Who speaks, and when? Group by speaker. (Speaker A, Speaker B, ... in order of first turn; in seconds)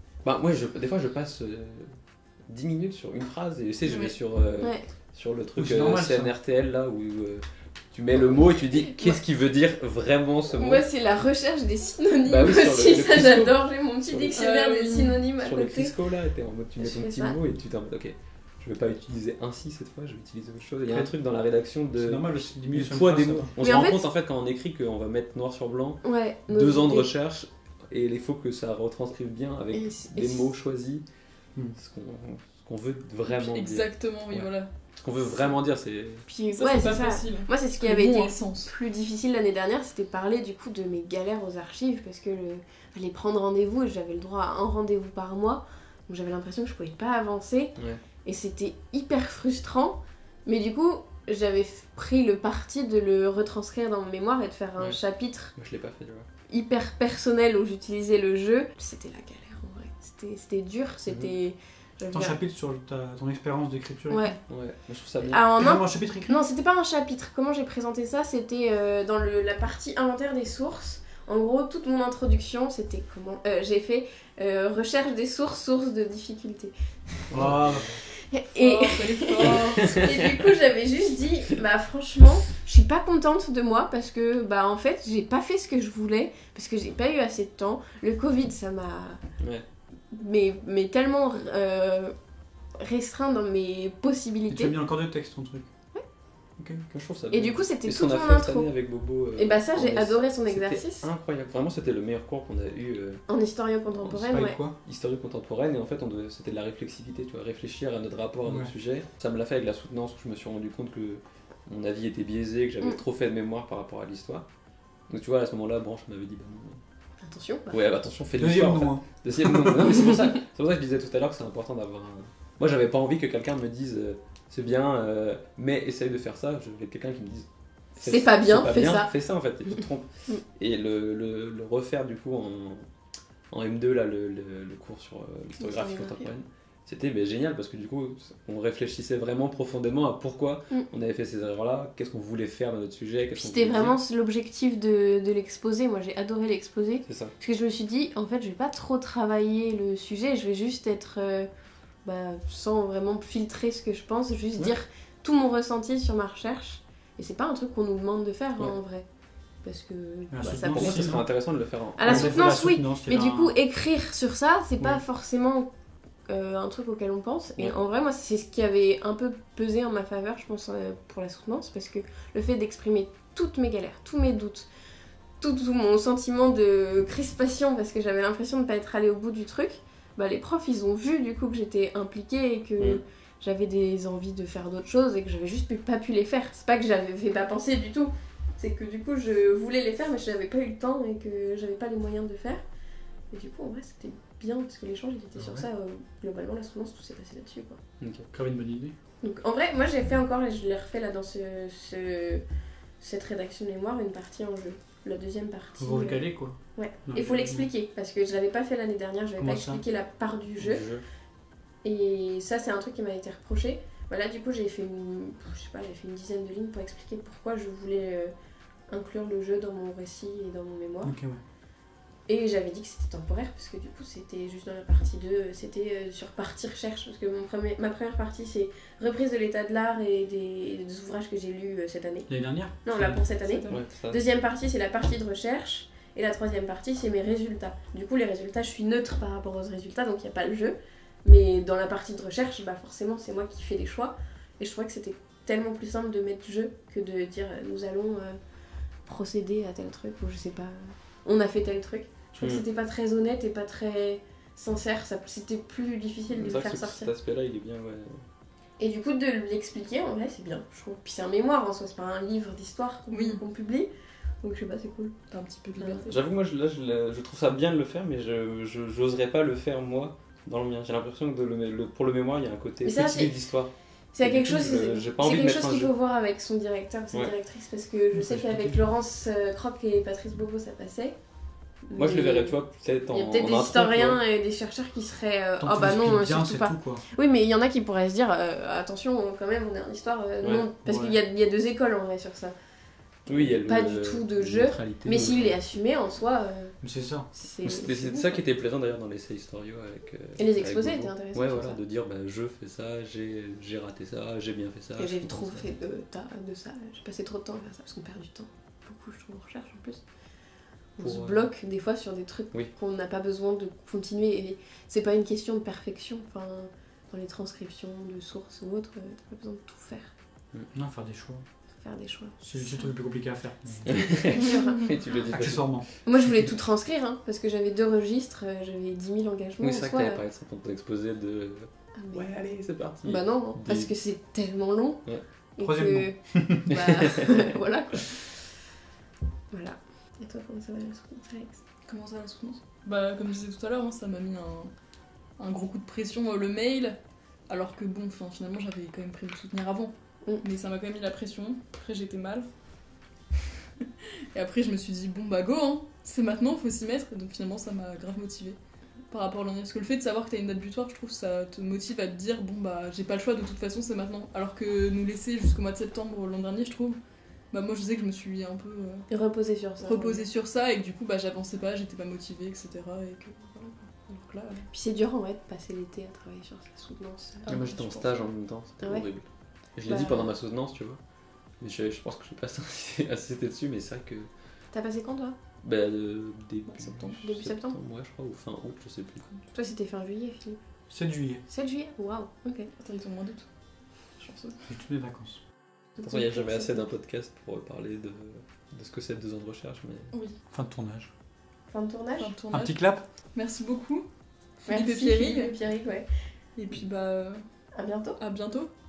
Speaker A: 0.2-10.9, 12.2-14.4, 15.4-31.0, 31.8-36.2, 47.8-48.0, 55.5-56.3, 64.5-65.5, 77.3-78.0, 79.4-80.4, 89.4-89.6, 96.9-103.2, 104.8-114.5, 115.1-116.8, 117.7-132.9, 133.5-143.9, 147.0-147.3, 160.6-162.6, 198.0-198.3, 210.6-211.0, 233.7-234.2, 252.3-252.6, 256.3-258.2, 266.1-275.9, 281.9-284.2, 290.4-290.7, 293.2-295.6, 297.6-305.7, 311.0-311.5, 323.9-325.8, 329.6-333.9, 336.7-337.5, 377.5-381.0, 381.6-384.3, 385.6-389.3, 396.0-400.1
Speaker B: 3.9-4.1, 14.3-15.2, 33.3-34.7, 36.5-38.7, 78.5-80.0, 233.4-233.8, 263.1-263.4, 265.3-266.2, 341.9-344.7, 345.4-352.5, 353.8-358.6, 359.1-367.0, 367.5-369.1, 369.8-374.7, 377.4-378.2, 386.7-387.2, 392.8-393.5, 394.1-394.6, 400.1-400.4, 402.2-402.8, 403.3-404.1, 404.6-405.5, 406.6-407.4, 408.2-408.7
Speaker C: 4.6-4.9, 10.6-15.9, 16.8-17.4, 23.6-24.0, 26.0-27.1, 29.7-30.5, 36.2-55.5, 56.5-62.4, 64.1-64.4, 65.2-76.7, 78.2-89.2, 90.1-92.1, 92.8-94.7, 97.3-98.7, 99.3-101.1, 103.3-104.6, 117.2-117.8, 128.0-129.1, 135.6-136.3, 143.4-151.5, 152.0-159.1, 159.6-161.2, 162.0-165.7, 166.3-174.7, 175.4-192.6, 193.3-197.8, 199.2-202.4, 203.0-206.2, 206.7-210.8, 211.8-218.3, 218.9-221.1, 222.3-232.3, 232.8-248.4, 249.1-257.1, 258.8-263.9, 264.4-265.1, 265.8-266.1, 272.8-273.3, 274.1-281.2, 281.9-292.5, 293.2-296.7, 297.3-298.4, 300.4-301.8, 305.0-310.0, 311.0-320.1, 321.8-322.4, 323.9-324.8, 326.0-330.2, 331.9-332.3, 333.0-335.0, 335.6-338.3, 339.5-341.6, 369.1-370.2, 374.7-377.6, 378.8-379.1, 379.9-380.3, 384.7-385.4, 387.2-387.8, 389.5-390.6, 391.5-392.7, 396.0-396.8, 401.7-402.3, 404.7-406.1, 407.7-408.2
Speaker D: 5.6-6.3, 20.9-21.1, 21.9-23.5, 62.1-64.4, 65.6-66.4, 77.3-78.0, 94.5-95.7, 96.6-96.9, 104.1-104.7, 108.4-108.7, 118.4-119.8, 160.3-161.2, 162.0-163.5, 198.3-198.9, 205.8-207.7, 209.4-209.8, 221.0-221.4, 232.3-233.2, 278.1-278.8, 285.6-287.0, 290.8-291.2, 296.8-297.3, 320.7-321.4, 322.4-324.1, 325.3-325.9, 335.6-336.7, 390.9-391.4, 394.7-395.4, 400.5-401.1, 402.5-403.0